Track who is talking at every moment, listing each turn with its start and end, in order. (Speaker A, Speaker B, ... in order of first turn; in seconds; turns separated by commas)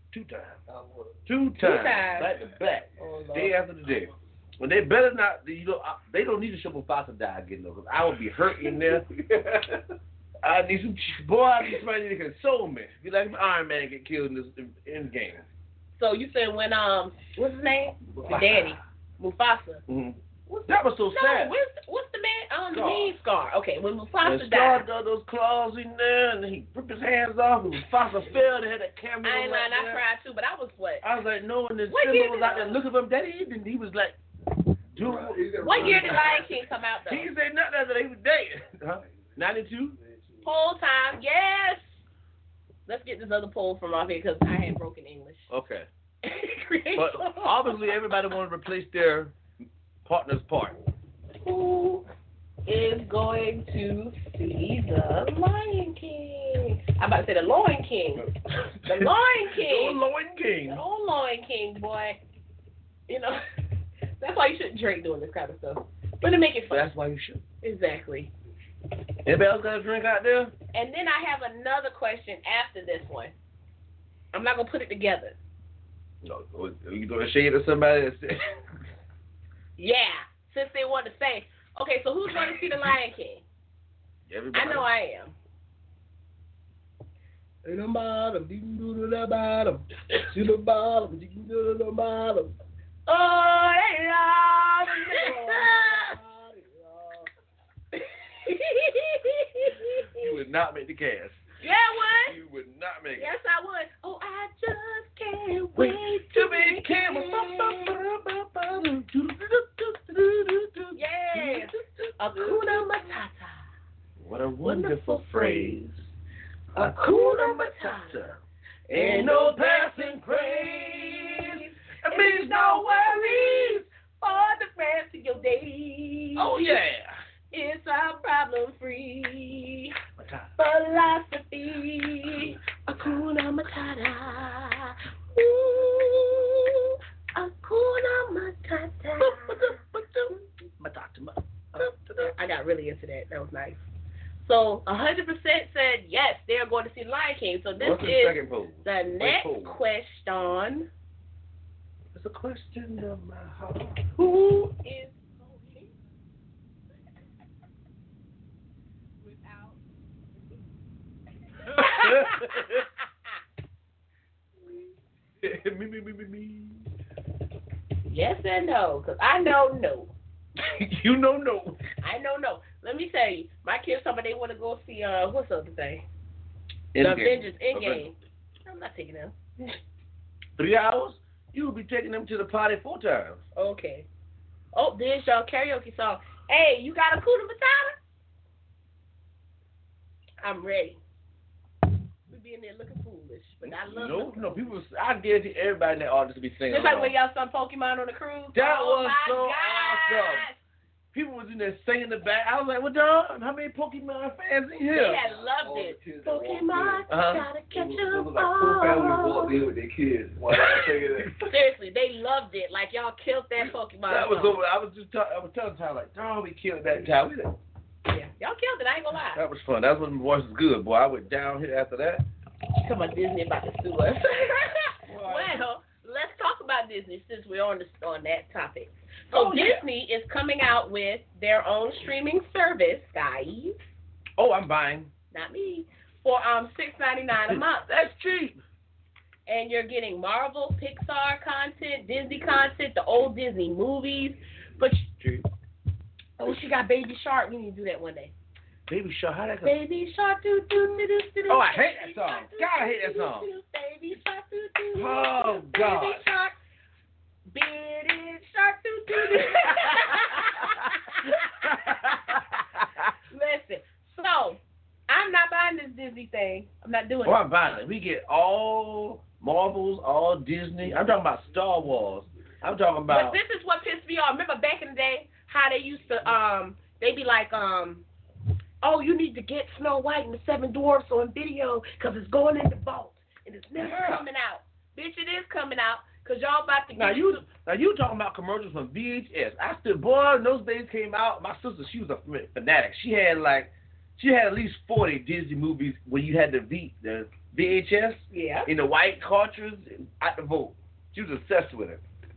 Speaker A: 0.1-0.6, Speaker B: 0.7-1.1, Speaker A: 1.3-9.1, Speaker C: 1.6-2.3, Speaker C: 3.0-3.5, Speaker B: 9.2-9.8, Speaker A: 10.4-15.4, Speaker C: 16.0-19.8, Speaker A: 18.2-18.7, Speaker A: 19.9-21.6, Speaker C: 20.5-24.9, Speaker A: 22.7-23.2, Speaker A: 24.2-30.0, Speaker C: 29.2-31.0, Speaker A: 31.0-34.2, Speaker C: 31.9-32.8, Speaker A: 34.9-36.5, Speaker B: 35.0-36.5, Speaker C: 35.6-37.3, Speaker A: 37.1-40.0, Speaker B: 40.0-40.5, Speaker C: 40.4-42.0, Speaker C: 42.9-45.5, Speaker A: 45.5-45.9, Speaker C: 46.2-48.0, Speaker A: 47.0-49.4, Speaker A: 50.1-50.8, Speaker C: 51.4-52.1, Speaker C: 52.7-58.3, Speaker A: 58.6-60.8, Speaker C: 58.9-60.0, Speaker C: 60.7-62.2, Speaker C: 63.1-63.4, Speaker C: 64.2-66.9, Speaker A: 66.7-67.4, Speaker C: 67.6-68.3, Speaker A: 69.2-70.5, Speaker C: 70.7-73.3, Speaker C: 74.3-75.4, Speaker A: 76.2-78.6, Speaker C: 79.8-83.4, Speaker A: 84.3-84.9, Speaker C: 84.5-85.3, Speaker C: 87.7-92.5, Speaker C: 93.1-97.3, Speaker A: 95.0-96.1, Speaker C: 97.9-100.3, Speaker A: 100.1-101.4, Speaker C: 101.6-102.4, Speaker A: 102.2-103.3, Speaker C: 103.2-108.0, Speaker A: 105.8-112.9, Speaker C: 111.0-113.6, Speaker A: 114.2-116.1, Speaker C: 114.6-115.8, Speaker C: 116.8-118.3, Speaker A: 116.8-123.9, Speaker C: 118.9-126.8, Speaker A: 126.4-127.2, Speaker C: 127.5-130.0, Speaker A: 130.2-130.5, Speaker C: 130.6-139.8, Speaker A: 139.2-142.3, Speaker C: 141.8-143.8, Speaker C: 144.4-150.9, Speaker A: 147.8-149.8, Speaker A: 152.2-154.1, Speaker C: 154.2-156.0, Speaker C: 159.2-159.8, Speaker C: 161.6-163.3, Speaker A: 161.7-162.8, Speaker C: 164.6-164.9, Speaker A: 165.4-166.8, Speaker C: 168.0-170.1, Speaker A: 170.6-171.8, Speaker C: 172.0-176.1, Speaker A: 176.9-178.1, Speaker C: 177.0-179.7, Speaker A: 180.6-183.4, Speaker C: 183.6-184.1, Speaker C: 184.7-188.0, Speaker C: 190.4-191.0, Speaker C: 192.3-194.7, Speaker A: 193.6-197.2, Speaker C: 196.7-200.6, Speaker A: 198.5-200.5, Speaker A: 201.1-205.2, Speaker C: 204.9-209.6, Speaker B: 205.1-207.1, Speaker A: 207.1-207.5, Speaker B: 207.7-211.4, Speaker A: 210.6-211.5, Speaker C: 211.4-214.6, Speaker A: 213.6-217.6, Speaker C: 218.1-219.4, Speaker A: 219.3-222.2, Speaker C: 222.8-233.8, Speaker A: 225.1-225.6, Speaker A: 229.3-229.8, Speaker A: 234.4-235.1, Speaker C: 235.3-237.9, Speaker A: 237.4-238.6, Speaker C: 239.5-245.2, Speaker C: 246.4-248.3, Speaker A: 248.9-249.8, Speaker C: 249.6-256.6, Speaker A: 251.5-253.5, Speaker A: 254.9-256.2, Speaker C: 257.5-262.4, Speaker A: 259.4-263.1, Speaker C: 263.3-267.4, Speaker A: 267.2-273.4, Speaker C: 273.1-278.1, Speaker C: 278.8-287.2, Speaker A: 283.8-284.3, Speaker A: 286.9-302.0, Speaker C: 298.3-298.7